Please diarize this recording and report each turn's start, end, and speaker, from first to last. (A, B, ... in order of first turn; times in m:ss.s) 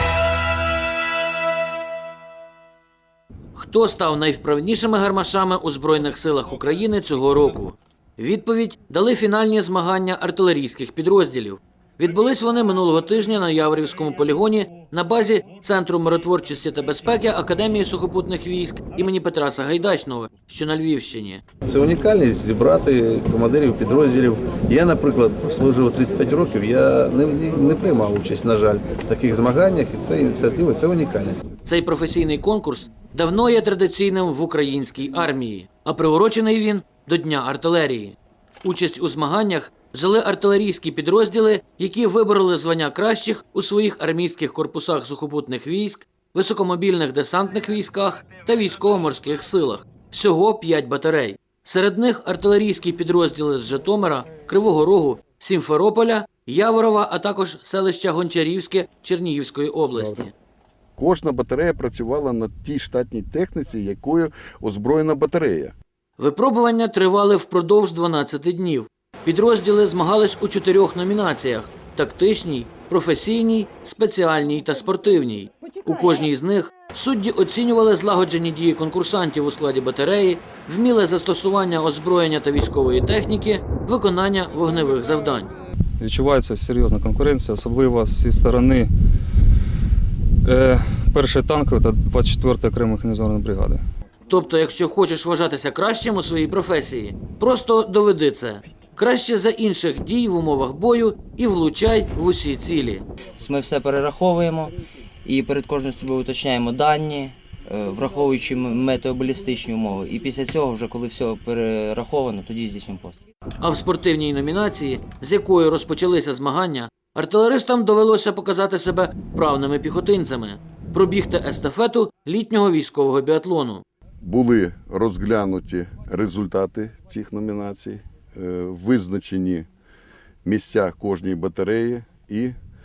0:03.6-0:21.4 A
0:21.6-0:31.4 B
0:31.6-1:00.3 A
1:00.0-1:00.3 C
1:01.0-1:05.7 C
1:06.2-1:25.5 A
1:26.0-1:28.9 D
1:30.4-1:33.8 D
1:34.3-1:43.0 A
1:43.4-1:44.7 E
1:45.2-1:53.2 E
1:53.6-2:03.8 A
2:04.2-2:09.7 C
2:10.4-2:12.6 C